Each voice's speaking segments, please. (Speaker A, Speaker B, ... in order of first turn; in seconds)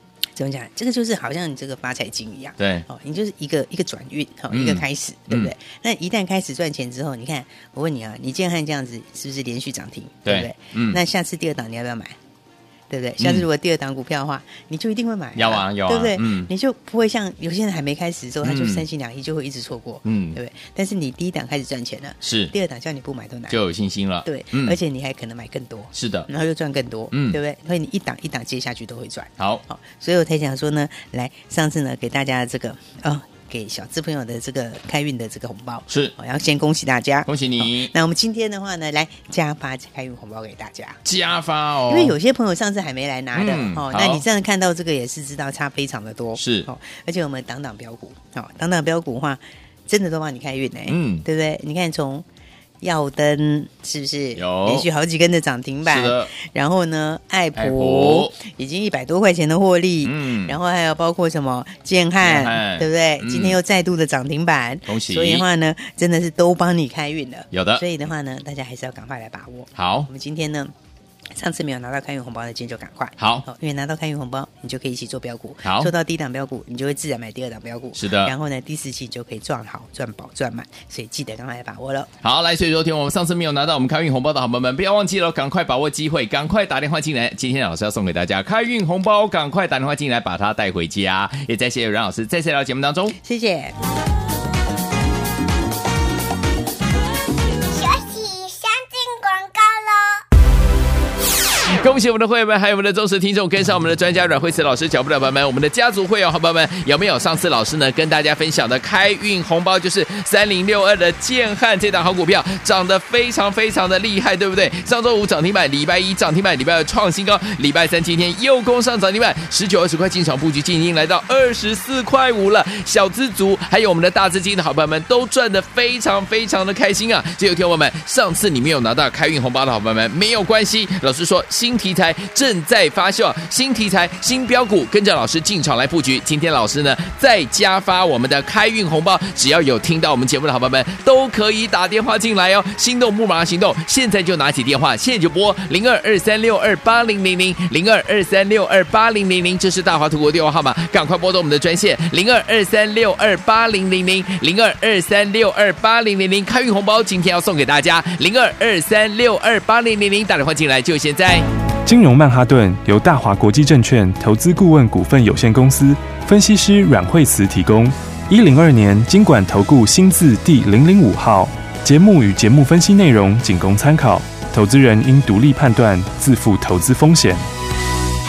Speaker A: 0.3-12.2, 12.9-23.6, 24.2-41.0, 41.9-52.2, 52.8-70.7, 71.3-82.1, 93.2-93.7
Speaker B: 2.6-2.9, 4.5-5.5, 10.2-11.0, 13.2-13.4, 15.3-16.5, 18.4-18.8, 20.0-20.4, 22.2-22.5, 23.5-24.8, 25.9-26.3, 27.1-27.4, 29.4-29.6, 37.2-37.9, 41.0-42.1, 43.3-44.2, 46.4-46.7, 50.9-51.2, 54.4-54.9, 55.8-56.3, 57.5-58.3, 60.0-60.6, 62.2-63.6, 64.9-65.5, 67.5-67.8, 69.7-70.1, 73.2-73.5, 75.6-75.9, 77.9-78.3, 82.2-93.1, 101.7-161.4
Speaker C: 97.7-100.2
Speaker D: 161.8-177.4